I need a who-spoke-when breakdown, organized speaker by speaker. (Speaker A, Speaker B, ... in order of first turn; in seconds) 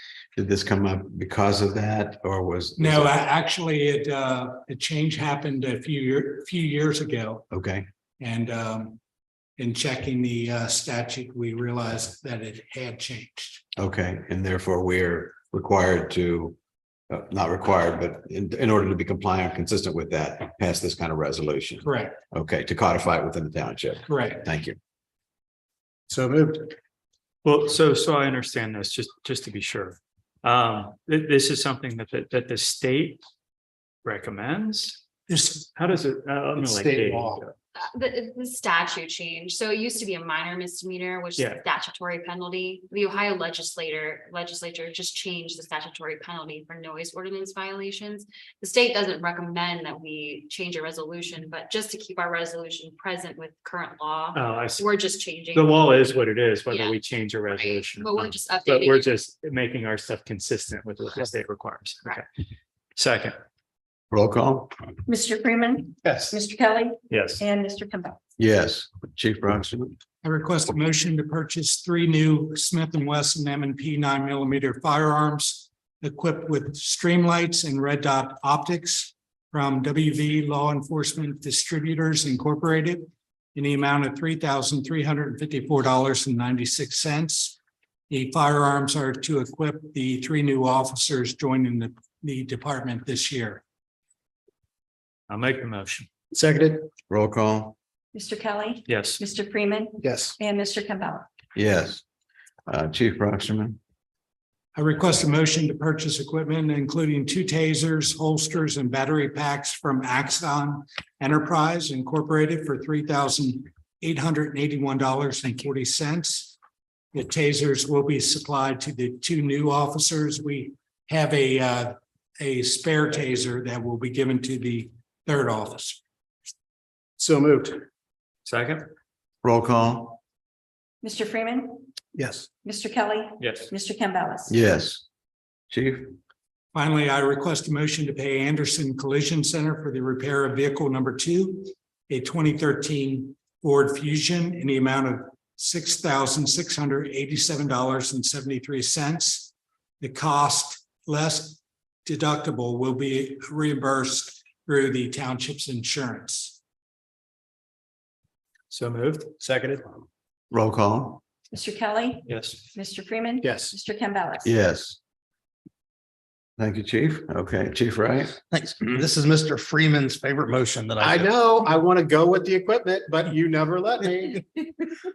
Speaker A: 0.3-3.1, 7.5-7.8, 13.8-16.6, 17.1-24.8, 64.1-64.7, 68.4-70.0, 97.1-97.7, 101.5-102.0, 102.7-103.8, 129.4-130.2, 134.5-135.0, 135.7-136.2, 160.5-161.2, 164.4-165.0, 166.6-168.3
Speaker B: 2.8-7.5, 8.2-9.0, 9.6-13.6, 21.8-22.2, 24.1-24.4, 35.3-35.6, 70.2-87.6, 88.1-93.6, 104.7-116.5, 117.1-126.0, 136.7-156.6
Speaker C: 26.1-26.7, 36.5-37.4, 66.0-66.3, 96.3-96.9, 100.0-100.3, 127.2-127.8, 132.2-132.4, 159.4-159.8, 163.4-163.7, 168.6-169.6, 171.0-174.4
Speaker D: 27.4-33.2, 34.0-35.0, 35.6-37.5, 54.3-54.9, 55.5-62.2, 63.0-63.4, 67.1-67.4, 95.3-96.1, 98.9-99.2, 128.4-128.9, 133.4-133.7, 158.7-159.3, 162.2-162.6
Speaker E: 37.7-55.8, 56.7-57.0, 57.5-59.2
Speaker F: 65.0-68.2, 98.1-101.2, 131.0-131.9, 132.6-134.6, 161.5-164.5
Speaker G: 169.3-171.2